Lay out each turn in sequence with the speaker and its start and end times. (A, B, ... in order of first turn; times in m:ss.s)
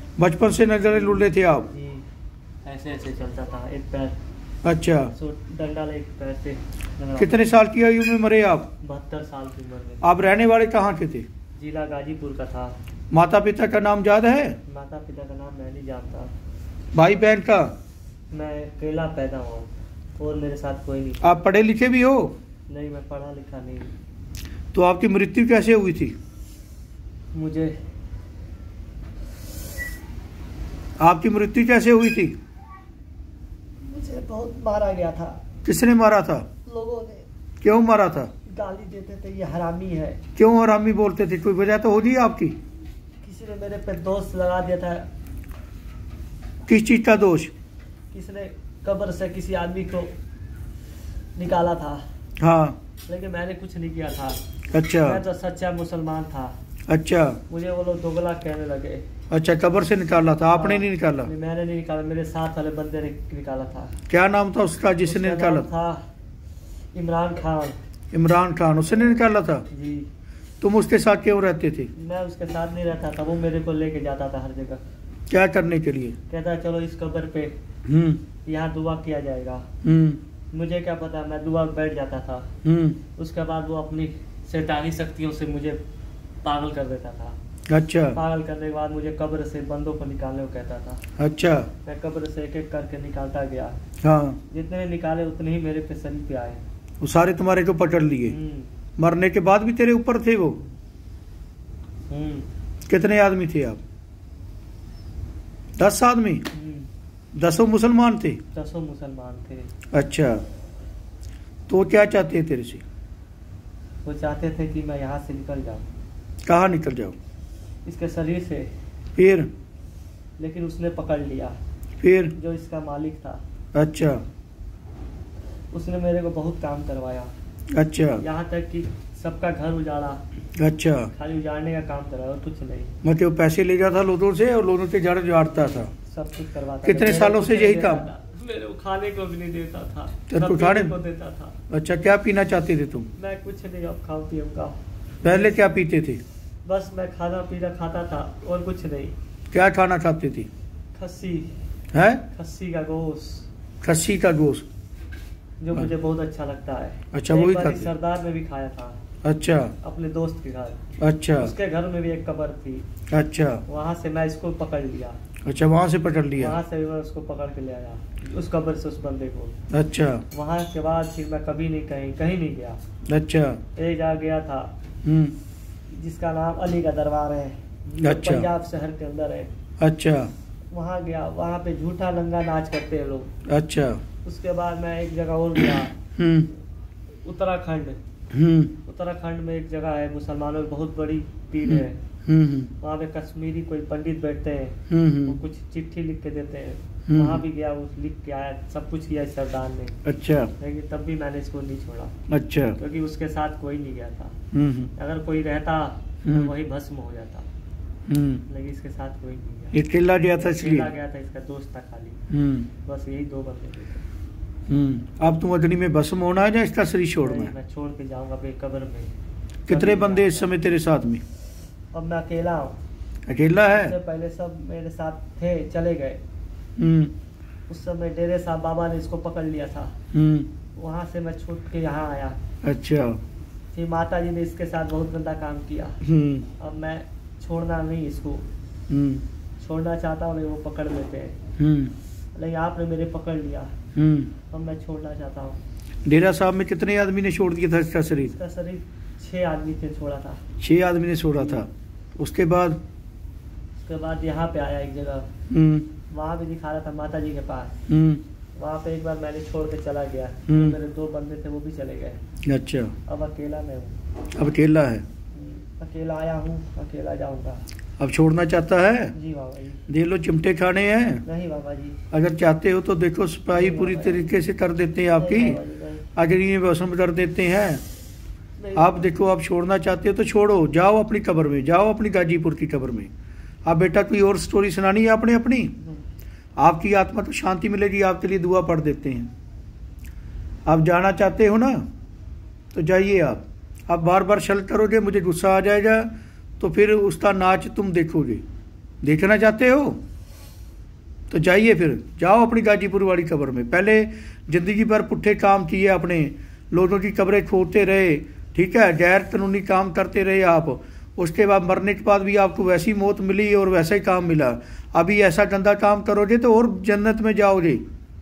0:00.2-0:01.7 A
0:01.7-0:02.0 B
0:02.6-0:04.2 B
0:04.6-0:05.1 A
0:05.2-0:07.4 B
0:07.2-0:08.7 A
0:08.8-0:10.1 B
0:10.0-0:11.3 A
0:11.6-0:12.8 B
0:13.1-0:14.6 A
0:14.7-0:16.3 B
0:16.9-0:17.7 A
0:18.3-0:21.2 B
0:21.2-0:22.3 A
0:22.7-0:23.9 B
0:24.7-0:26.2 A
0:27.3-0:27.8 B
0:31.0-0:32.4 A
0:33.8-0:35.4 B
0:35.6-0:36.5 A
0:36.7-0:37.3 B
0:37.6-0:38.3 A
0:38.5-0:40.2 B
0:40.4-0:42.6 A
0:43.2-0:45.1 B
0:46.7-0:47.5 A
0:48.1-0:50.1 B
0:51.4-0:52.0 B
0:52.4-0:52.8 A
0:53.1-0:54.4 B
0:54.7-0:55.2 A
0:55.0-0:56.6 B
0:56.9-0:57.4 A
0:57.5-0:59.1 B
0:59.3-1:01.3 A
1:00.5-1:04.0 B
1:04.1-1:05.7 A
1:05.0-1:06.0 B
1:06.9-1:07.8 B
1:08.1-1:09.7 A
1:08.9-1:10.1 B
1:10.6-1:11.9 A
1:12.0-1:14.8 B
1:15.3-1:16.2 A
1:16.3-1:17.6 B
1:17.9-1:18.2 A
1:18.4-1:19.7 B
1:19.8-1:20.2 A
1:20.5-1:22.5 B
1:22.6-1:23.0 A
1:23.2-1:25.8 B
1:26.4-1:27.4 B
1:27.7-1:28.2 A
1:28.1-1:31.0 B
1:31.2-1:31.7 A
1:31.8-1:33.8 B
1:34.0-1:34.4 A
1:34.5-1:36.6 B
1:37.0-1:38.4 A
1:38.2-1:38.7 B
1:39.0-1:40.6 A
1:42.1-1:42.5 B
1:42.9-1:43.8 A
1:45.8-1:46.4 A
1:46.5-1:46.9 B
1:47.4-1:48.4 A
1:48.5-1:49.7 B
1:49.9-1:50.4 A
1:51.7-1:52.8 A
1:54.0-1:55.8 B
1:56.4-1:57.2 A
1:57.8-1:58.7 B
1:59.2-1:59.5 A
2:00.4-2:01.6 B
2:02.0-2:02.3 A
2:02.4-2:03.4 B
2:03.7-2:04.2 A
2:05.7-2:07.3 B
2:07.7-2:08.2 A
2:08.2-2:10.2 B
2:10.6-2:11.1 A
2:11.2-2:12.9 B
2:13.0-2:15.9 A
2:16.0-2:21.6 B
2:16.8-2:18.1 A
2:20.3-2:21.0 A
2:21.7-2:23.1 A
2:23.2-2:25.6 B
2:25.2-2:26.2 A
2:26.6-2:29.2 B
2:29.5-2:30.5 A
2:31.0-2:31.5 B
2:31.9-2:32.2 A
2:32.3-2:33.5 B
2:33.8-2:34.7 A
2:35.6-2:39.0 B
2:37.1-2:37.9 A
2:39.2-2:39.8 A
2:39.8-2:40.8 B
2:41.0-2:41.5 A
2:41.4-2:42.9 B
2:43.1-2:43.6 A
2:43.7-2:45.2 B
2:45.4-2:46.6 A
2:46.4-2:49.6 B
2:49.7-2:50.2 A
2:50.3-2:52.8 B
2:53.1-2:53.6 A
2:53.8-2:54.7 B
2:55.0-2:55.4 A
2:55.9-2:59.5 B
2:58.0-2:58.5 A
2:59.8-3:00.3 A
3:00.7-3:03.3 B
3:03.5-3:04.0 A
3:04.2-3:06.0 B
3:06.2-3:06.5 A
3:07.2-3:08.0 B
3:08.3-3:08.8 A
3:08.8-3:12.0 B
3:11.6-3:12.7 A
3:12.8-3:20.0 B
3:14.9-3:15.4 A
3:17.1-3:17.4 A
3:20.0-3:20.5 A
3:20.6-3:22.2 B
3:22.3-3:22.8 A
3:22.8-3:24.4 B
3:24.5-3:24.9 A
3:25.0-3:27.5 B
3:26.2-3:26.5 A
3:28.1-3:28.4 A
3:28.5-3:29.8 B
3:29.7-3:30.9 A
3:30.4-3:32.2 B
3:32.3-3:32.7 A
3:32.8-3:34.1 B
3:34.7-3:37.5 A
3:37.2-3:39.1 B
3:39.7-3:41.2 A
3:39.7-3:40.5 B
3:41.9-3:42.8 B
3:43.3-3:44.0 A
3:43.7-3:46.2 B
3:46.8-3:47.1 A
3:47.7-3:50.0 B
3:50.1-3:50.5 A
3:50.8-3:52.4 B
3:52.6-3:53.2 A
3:53.7-3:56.0 B
3:56.0-3:56.5 A
3:56.6-3:58.5 B
3:58.9-3:59.2 A
3:59.6-4:01.4 B
4:01.6-4:01.9 A
4:02.4-4:03.7 B
4:04.0-4:04.3 A
4:04.5-4:05.6 B
4:06.1-4:08.3 A
4:08.2-4:10.4 B
4:10.6-4:12.8 A
4:13.8-4:15.3 B
4:15.5-4:15.9 A
4:16.1-4:17.8 B
4:17.9-4:18.2 A
4:18.6-4:22.2 B
4:20.5-4:20.8 A
4:22.4-4:23.0 A
4:23.1-4:24.0 B
4:24.4-4:25.1 A
4:25.3-4:27.6 B
4:28.0-4:29.1 A
4:29.1-4:29.8 B
4:29.9-4:31.2 A
4:31.2-4:32.0 B
4:32.1-4:35.6 A
4:33.5-4:34.3 B
4:35.2-4:36.0 B
4:36.2-4:37.8 A
4:38.6-4:39.1 B
4:38.8-4:43.1 A
4:43.7-4:45.7 A
4:46.6-4:49.3 A
4:50.7-4:51.8 A
4:52.7-4:58.4 A
4:59.0-5:00.0 A
5:01.3-5:17.8 A